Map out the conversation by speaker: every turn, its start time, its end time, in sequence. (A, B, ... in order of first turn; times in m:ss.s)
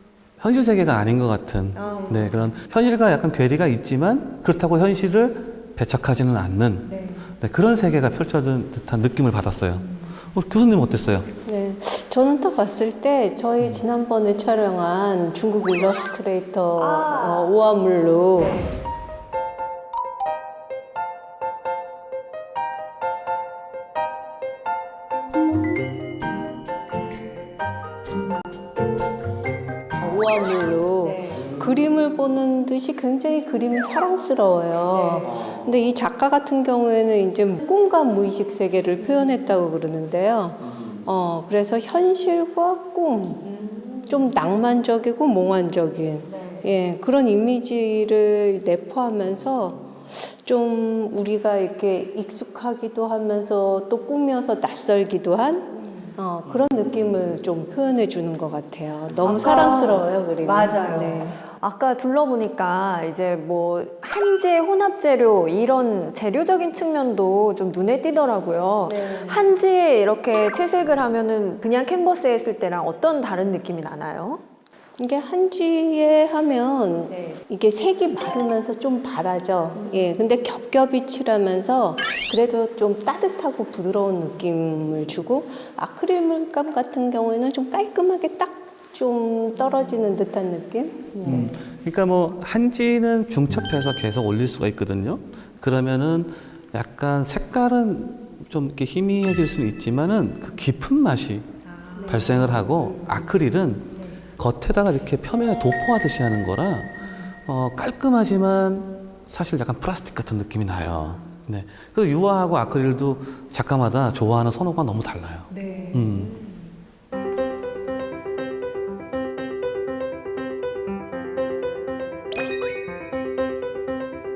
0:00.4-0:11.3 A
0:01.8-0:02.5 B
0:06.8-0:07.2 B
0:11.4-0:18.6 C
0:16.8-0:17.6 B
0:18.2-0:18.7 B
0:30.0-0:43.5 C
0:31.0-0:31.5 B
0:34.9-0:35.4 B
0:43.5-0:44.2 B
0:44.1-1:01.3 C
0:46.3-0:46.6 B
0:59.2-1:14.4 B
1:08.8-1:09.4 C
1:15.0-1:31.5 C
1:31.2-1:41.5 A
1:41.8-1:42.4 B
1:42.0-1:56.4 A
1:55.5-1:56.5 B